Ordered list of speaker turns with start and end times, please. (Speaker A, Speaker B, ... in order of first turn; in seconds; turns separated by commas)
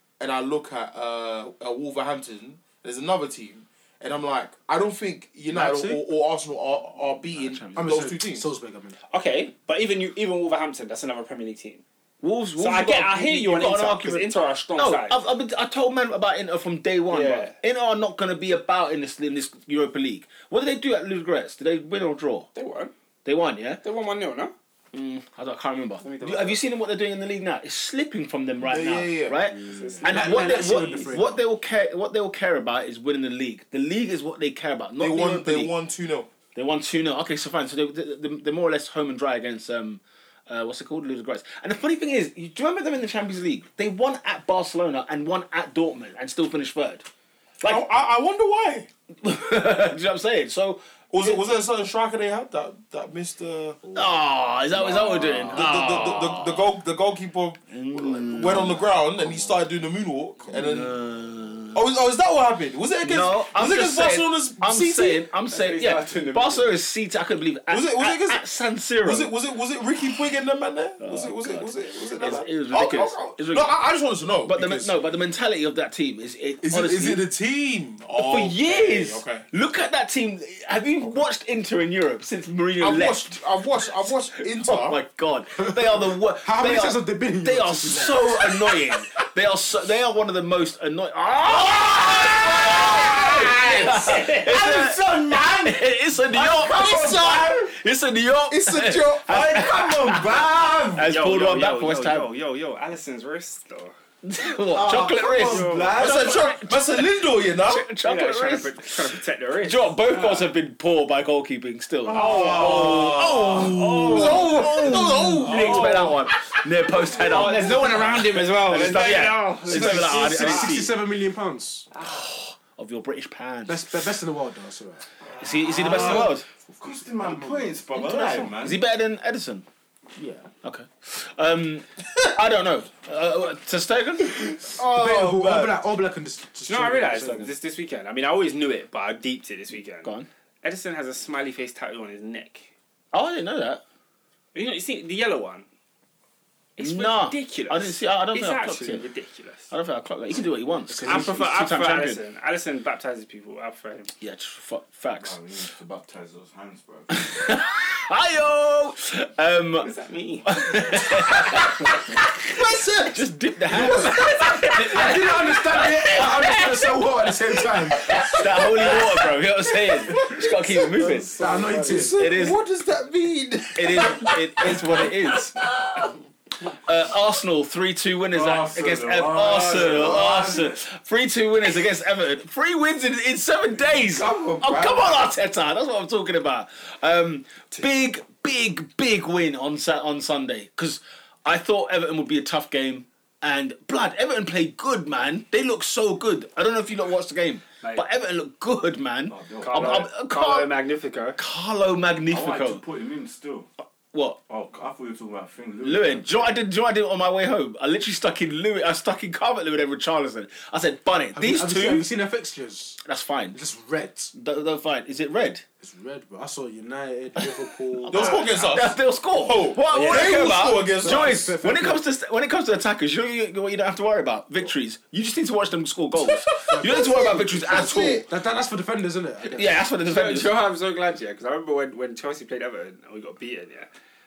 Speaker A: 0.2-8.5, Speaker B: 5.5-6.0, Speaker C: 5.5-6.0, Speaker C: 7.3-8.1, Speaker D: 7.8-9.0, Speaker B: 9.1-11.8, Speaker C: 12.2-22.5, Speaker B: 12.6-15.2, Speaker B: 17.1-17.6, Speaker B: 22.5-22.9, Speaker C: 23.2-23.8, Speaker B: 23.8-24.5, Speaker C: 24.9-35.7, Speaker B: 26.0-26.6, Speaker A: 28.6-29.5, Speaker B: 29.6-31.0, Speaker D: 30.0-31.4, Speaker A: 35.0-36.3, Speaker C: 36.5-47.0, Speaker A: 47.6-48.9, Speaker C: 49.2-51.4, Speaker A: 51.1-53.9, Speaker C: 53.9-56.7, Speaker A: 54.9-61.0, Speaker C: 57.7-58.9, Speaker C: 60.5-61.9, Speaker A: 61.7-65.2, Speaker C: 63.0-69.3, Speaker B: 65.5-66.7, Speaker A: 67.7-68.4, Speaker A: 69.0-74.9, Speaker C: 71.0-73.7, Speaker C: 74.4-77.2, Speaker A: 76.6-79.5, Speaker C: 78.2-83.3, Speaker A: 82.8-85.0, Speaker C: 84.6-102.3, Speaker D: 86.4-88.7, Speaker A: 91.6-94.1, Speaker E: 93.0-93.6, Speaker B: 93.2-94.2, Speaker E: 94.4-95.7, Speaker A: 96.3-97.8, Speaker A: 98.5-101.0, Speaker E: 100.2-100.7, Speaker B: 101.1-104.0, Speaker C: 104.2-107.1, Speaker A: 104.7-107.9, Speaker E: 105.0-106.3, Speaker B: 105.4-106.2, Speaker C: 107.6-108.8, Speaker B: 108.0-110.3, Speaker C: 109.6-120.9, Speaker A: 112.0-116.2, Speaker E: 112.5-113.4, Speaker E: 115.5-115.8, Speaker B: 117.1-120.8, Speaker A: 117.1-117.5, Speaker E: 118.9-119.6, Speaker A: 119.0-119.3, Speaker D: 119.7-121.9, Speaker C: 122.0-124.1, Speaker D: 123.7-125.1, Speaker C: 125.4-126.5, Speaker E: 125.6-128.8, Speaker D: 125.7-127.8, Speaker C: 127.9-129.7, Speaker B: 128.0-128.4, Speaker C: 130.6-135.7, Speaker A: 134.8-135.6, Speaker D: 134.8-137.5, Speaker B: 136.7-142.7, Speaker C: 140.0-140.3, Speaker C: 143.1-143.8, Speaker B: 144.5-145.7, Speaker B: 146.8-149.7, Speaker C: 146.8-149.0, Speaker C: 149.7-152.2, Speaker B: 150.9-154.1, Speaker C: 154.2-155.4, Speaker E: 155.1-157.2, Speaker C: 157.1-159.9, Speaker B: 159.8-161.0, Speaker C: 160.4-166.9, Speaker A: 161.8-165.3, Speaker D: 164.7-168.2, Speaker C: 168.0-171.3, Speaker A: 168.2-169.2, Speaker A: 169.8-175.1, Speaker B: 171.0-172.1, Speaker D: 171.4-172.2, Speaker C: 171.9-172.6, Speaker C: 173.7-175.6, Speaker C: 176.8-200.7, Speaker E: 178.3-180.7, Speaker E: 184.0-185.2, Speaker E: 199.3-200.1, Speaker B: 199.6-201.4, Speaker C: 201.4-202.8, Speaker E: 202.3-203.7, Speaker C: 204.1-204.4, Speaker E: 204.5-206.5, Speaker C: 205.8-212.1, Speaker D: 211.3-213.0, Speaker C: 213.0-213.6, Speaker D: 213.5-214.3, Speaker C: 214.3-215.6, Speaker D: 215.8-218.7, Speaker C: 217.9-228.2, Speaker A: 218.1-221.5, Speaker D: 220.1-222.0, Speaker D: 226.7-229.7, Speaker A: 226.8-228.2, Speaker C: 229.5-230.6, Speaker B: 230.0-233.9